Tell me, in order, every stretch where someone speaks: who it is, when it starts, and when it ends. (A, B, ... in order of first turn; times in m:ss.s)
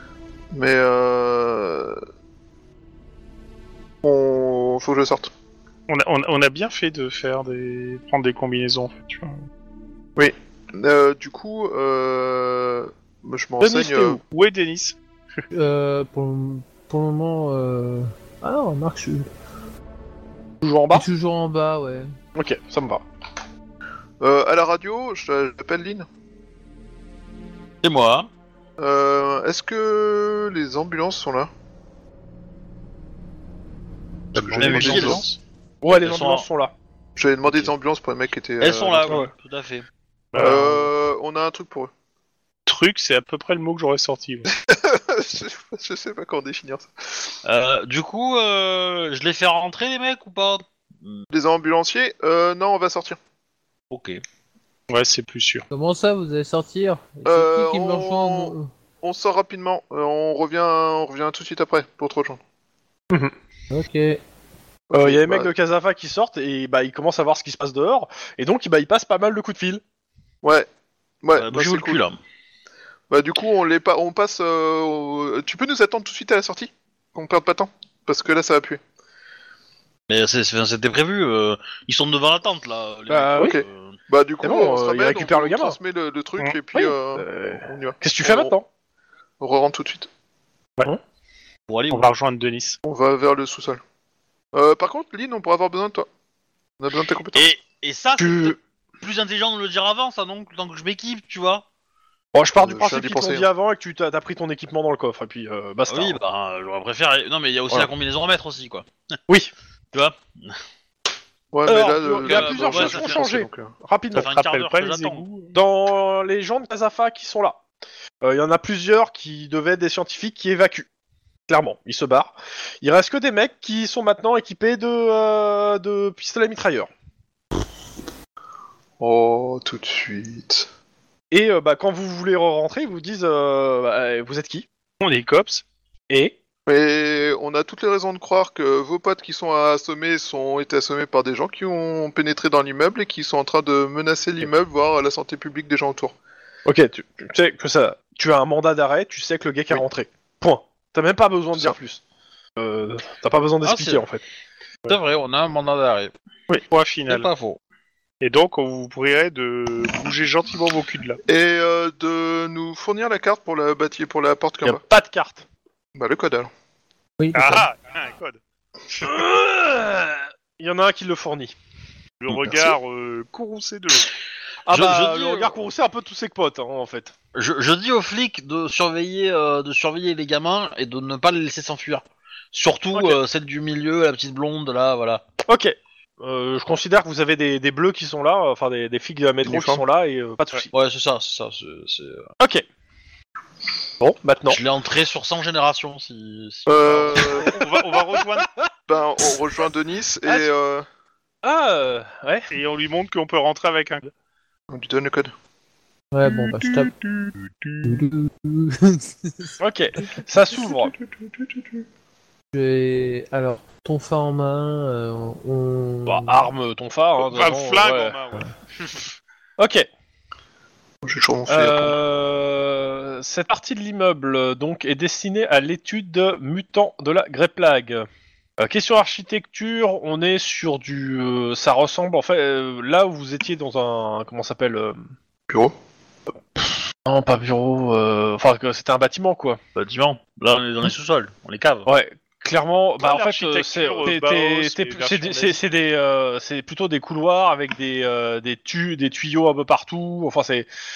0:00.5-0:02.0 A
0:04.0-0:05.3 A
0:05.9-0:09.4 B
0:10.2-0:14.2 A
0:13.6-0:14.2 C
0:14.2-0:15.0 B
0:15.5-0:19.3 D
0:20.6-0:21.1 C
0:20.9-0:22.1 D
0:22.3-0:23.0 C
0:24.2-0:26.1 A
0:27.8-0:28.3 E
0:28.8-0:31.5 A
0:34.3-0:35.4 B
0:34.3-0:35.2 A
0:34.6-0:35.2 E
0:35.8-0:36.7 C
0:35.9-0:36.4 E
0:37.2-0:39.2 A
0:38.6-0:39.8 E
0:39.0-0:39.3 C
0:40.3-0:40.9 B
0:40.4-0:41.9 A
0:42.6-0:44.5 B
0:44.5-0:47.3 A
0:47.4-0:51.2 E
0:51.3-0:53.2 A
0:53.9-0:54.2 E
0:54.9-0:55.7 B
0:55.7-0:58.7 D
0:57.2-1:02.4 A
1:03.7-1:04.2 D
1:04.9-1:05.5 A
1:04.9-1:09.8 C
1:11.2-1:12.0 A
1:11.3-1:12.2 E
1:13.1-1:18.8 A
1:20.1-1:24.0 E
1:23.1-1:23.6 C
1:23.4-1:28.5 A
1:24.4-1:25.8 C
1:26.7-1:28.7 C
1:29.4-1:30.1 A
1:31.7-1:32.1 E
1:31.9-1:32.8 B
1:32.8-1:33.8 A
1:34.5-1:36.1 A
1:36.8-1:37.5 A
1:37.3-1:41.6 E
1:38.2-1:38.6 C
1:42.3-1:46.2 C
1:42.6-1:43.5 A
1:45.9-1:48.9 E
1:49.9-1:50.6 E
1:51.5-1:53.7 A
1:51.6-1:54.3 C
1:52.2-1:53.3 E
1:54.1-1:55.6 B
1:54.1-1:55.2 E
1:55.5-1:57.6 C
1:58.2-2:00.9 C
2:01.5-2:06.9 C
2:09.0-2:10.7 A
2:11.3-2:14.7 C
2:15.0-2:15.6 B
2:16.1-2:16.4 C
2:16.7-2:26.1 A
2:26.6-2:32.0 C
2:32.6-2:34.2 C
2:33.6-2:34.1 E
2:34.9-2:36.1 E
2:36.7-2:37.3 B
2:37.1-2:37.6 E
2:38.2-2:41.2 B
2:41.3-2:44.8 A
2:44.6-2:45.4 C
2:45.9-2:46.5 A
2:47.2-2:47.6 D
2:47.3-2:48.4 B
2:49.0-2:51.5 C
2:52.2-2:54.1 B
2:54.6-2:57.1 C
2:54.7-2:55.5 E
2:57.3-3:05.2 E
3:05.4-3:10.7 C
3:09.4-3:09.8 A
3:10.7-3:12.3 E
3:12.4-3:12.6 C
3:14.0-3:14.6 C
3:14.5-3:17.5 E
3:16.7-3:17.5 A
3:17.4-3:18.5 B
3:17.4-3:18.7 C
3:18.9-3:20.8 A
3:21.4-3:22.5 C
3:22.5-3:24.1 B
3:24.7-3:25.3 A
3:26.1-3:26.9 D
3:26.2-3:28.1 B
3:27.8-3:29.5 D
3:29.6-3:30.9 C
3:31.2-3:31.8 A
3:32.5-3:36.5 D
3:36.0-3:38.2 C
3:37.2-3:39.1 B
3:39.6-3:39.9 C
3:41.0-3:42.0 A
3:41.5-3:48.1 C
3:48.6-3:55.1 C
3:55.5-3:55.7 A
3:56.6-3:59.6 C
3:59.7-4:01.9 E
4:01.8-4:10.7 C
4:03.0-4:05.6 B